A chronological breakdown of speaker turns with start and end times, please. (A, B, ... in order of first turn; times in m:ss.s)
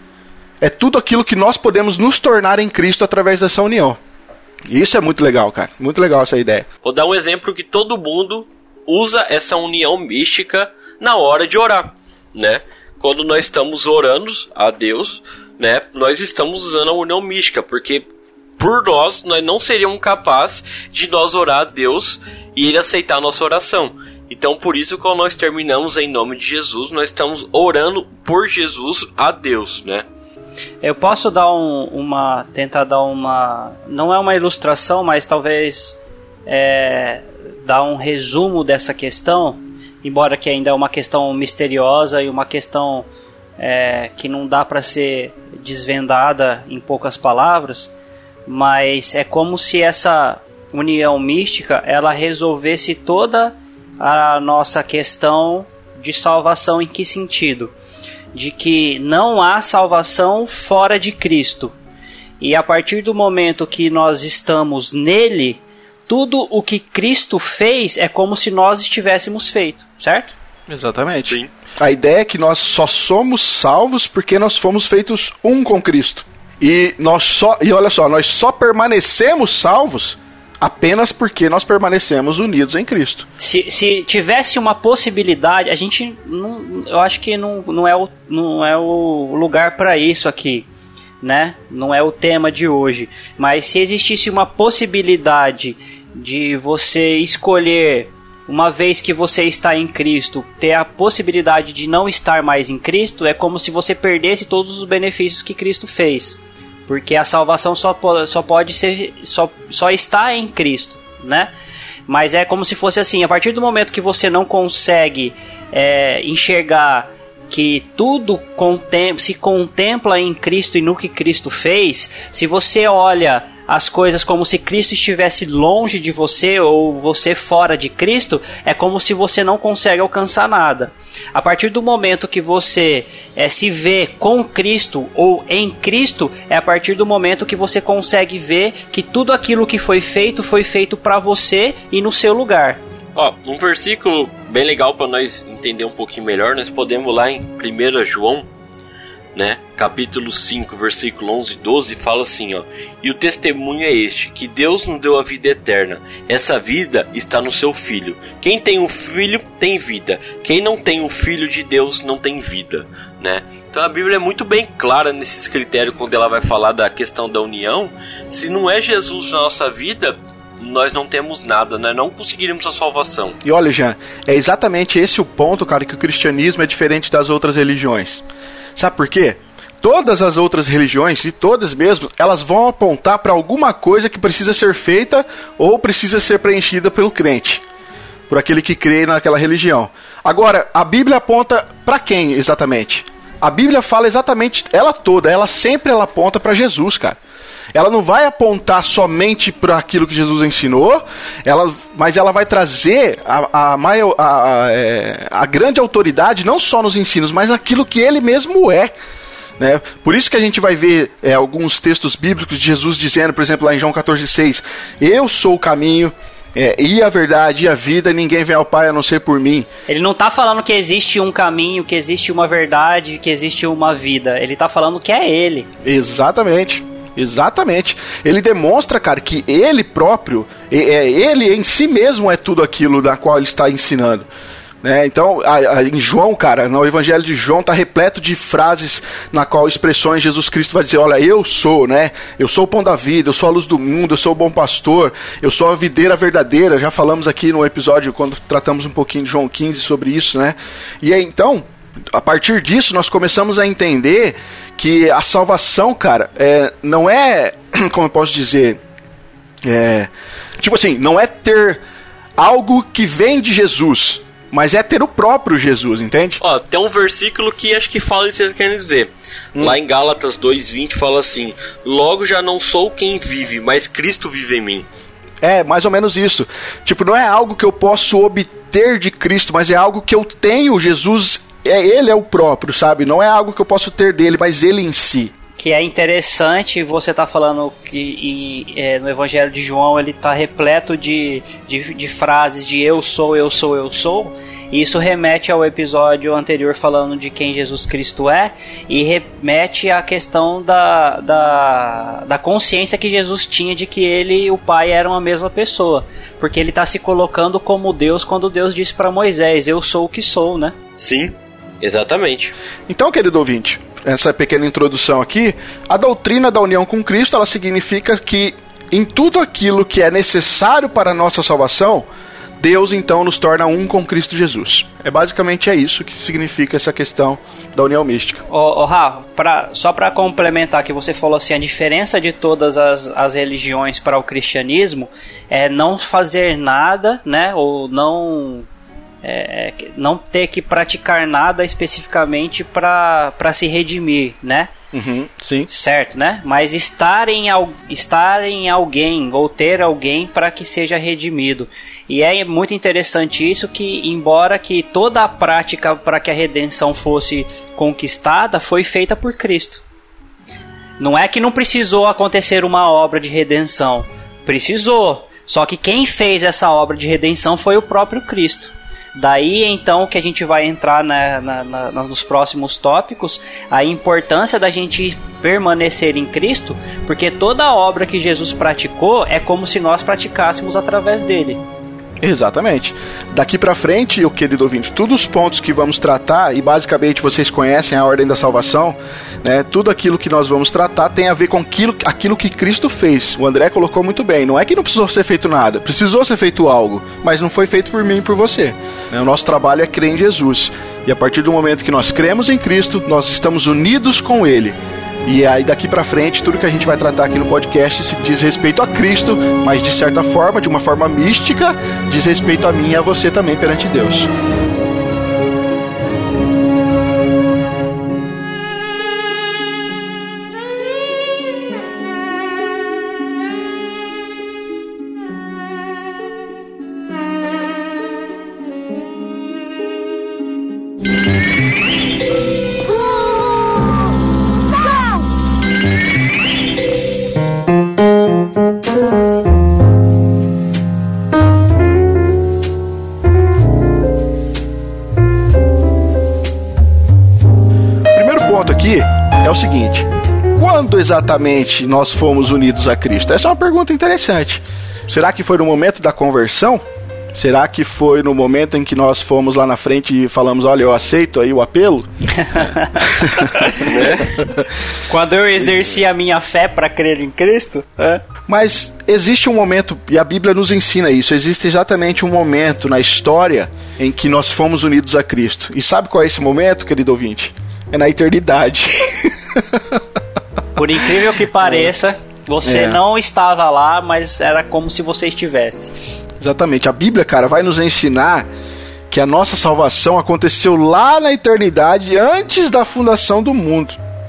0:00.6-0:04.0 A
0:04.7-0:06.7 A
0:06.8-0:30.0 B
0:30.8-0:43.1 C
0:43.6-0:47.9 C
0:48.5-0:57.7 C
0:58.3-1:01.7 C
1:02.4-1:10.3 C
1:10.7-1:23.3 A
1:23.4-1:30.7 C
1:31.2-1:51.5 C
1:52.1-2:22.8 C
2:23.2-2:28.5 B
2:29.4-2:53.4 B
2:53.4-2:58.2 A
2:58.8-3:07.6 A
3:08.3-3:17.2 A
3:17.7-3:28.9 A
3:29.6-3:39.7 A
3:39.9-3:45.7 C
3:45.8-3:54.3 A
3:54.8-4:18.8 A
4:19.6-4:21.8 A
4:22.4-4:26.4 A
4:26.4-4:34.9 B
4:35.4-4:45.3 A
4:45.6-5:10.8 C
5:11.0-5:12.5 B
5:12.9-5:22.0 A
5:22.6-5:28.4 A
5:28.5-5:38.7 C
5:39.2-5:44.7 C
5:44.9-5:45.7 A
5:45.7-5:59.8 C
6:01.0-6:21.6 C
6:22.2-6:54.3 A
7:28.1-7:42.1 A
7:42.4-7:44.4 C
7:43.0-7:43.5 A
7:43.8-7:44.3 B
7:45.1-7:48.2 C
7:48.5-8:00.0 A
8:00.8-8:06.0 C
8:01.6-8:01.9 A
8:02.6-8:03.0 A
8:06.4-8:08.5 A
8:09.1-8:14.0 A